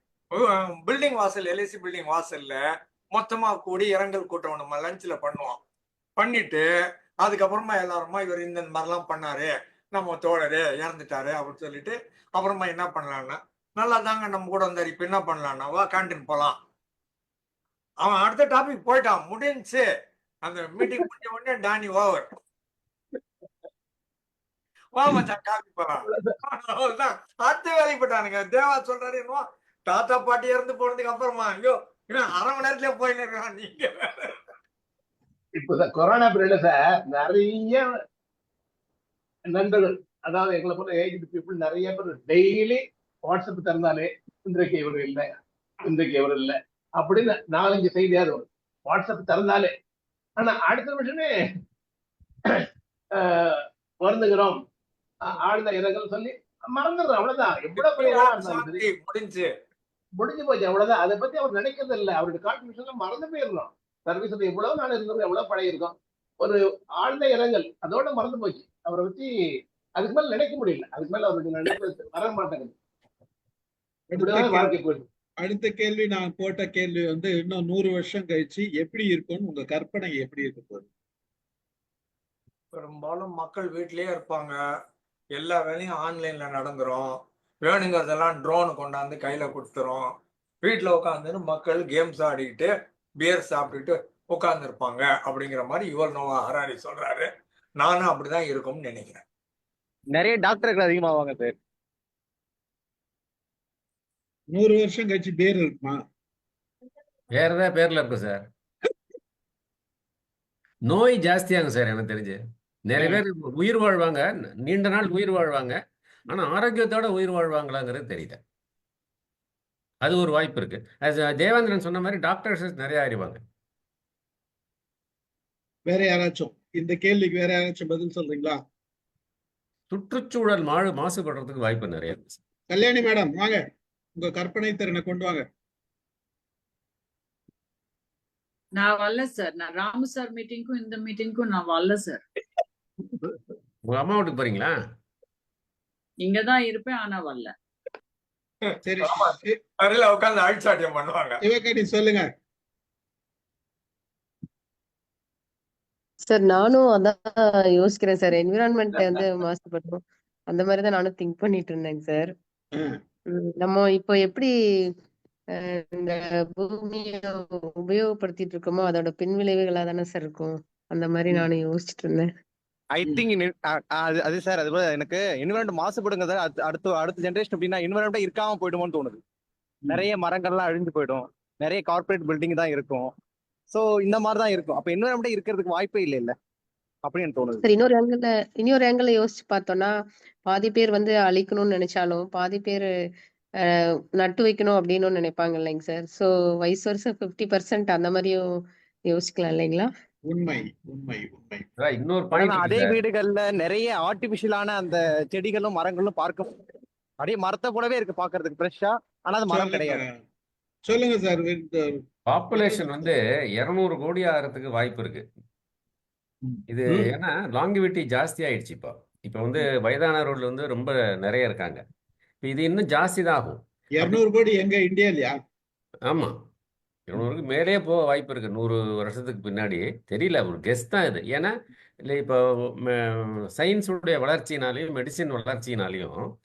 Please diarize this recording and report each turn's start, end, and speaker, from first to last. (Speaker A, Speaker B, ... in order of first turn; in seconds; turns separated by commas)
Speaker A: 0.3-2.6, Speaker A: 3.1-5.6, Speaker A: 6.2-6.7, Speaker A: 7.2-16.6, Speaker A: 18.0-19.9, Speaker A: 20.4-22.2, Speaker A: 24.9-34.4, Speaker B: 26.1-26.4, Speaker B: 35.6-37.9, Speaker B: 39.5-49.7, Speaker B: 50.4-51.3, Speaker B: 52.5-54.6, Speaker B: 55.2-58.9, Speaker A: 57.8-59.5, Speaker B: 60.2-69.3, Speaker B: 70.0-72.7, Speaker C: 74.1-74.7, Speaker B: 74.2-75.0, Speaker C: 75.4-80.9, Speaker A: 82.7-84.6, Speaker A: 85.3-90.1, Speaker A: 90.6-97.3, Speaker A: 97.8-99.2, Speaker D: 100.1-101.5, Speaker C: 104.5-106.0, Speaker E: 107.3-108.4, Speaker E: 110.9-115.8, Speaker E: 116.3-118.4, Speaker E: 120.0-123.4, Speaker C: 125.9-128.6, Speaker E: 129.9-132.4, Speaker C: 132.7-133.6, Speaker C: 134.2-135.4, Speaker F: 138.8-142.2, Speaker C: 143.1-143.4, Speaker E: 143.9-144.7, Speaker F: 146.2-147.5, Speaker A: 148.7-151.4, Speaker C: 148.8-149.6, Speaker C: 151.4-152.2, Speaker G: 156.3-162.3, Speaker G: 163.3-164.5, Speaker G: 165.6-172.3, Speaker D: 173.0-179.2, Speaker D: 179.9-183.1, Speaker D: 183.7-186.3, Speaker D: 187.1-187.6, Speaker G: 187.6-189.9, Speaker G: 190.5-192.9, Speaker G: 194.2-198.4, Speaker G: 199.1-199.9, Speaker C: 200.3-201.7, Speaker E: 201.8-203.0, Speaker D: 202.4-206.5, Speaker D: 207.2-210.0, Speaker C: 209.5-210.1, Speaker C: 210.9-212.0, Speaker E: 212.3-215.2, Speaker C: 212.6-213.1, Speaker C: 216.4-217.0, Speaker E: 216.7-221.8, Speaker E: 222.4-224.2, Speaker C: 224.0-225.3, Speaker E: 226.1-226.4, Speaker E: 227.1-231.5, Speaker E: 232.1-236.2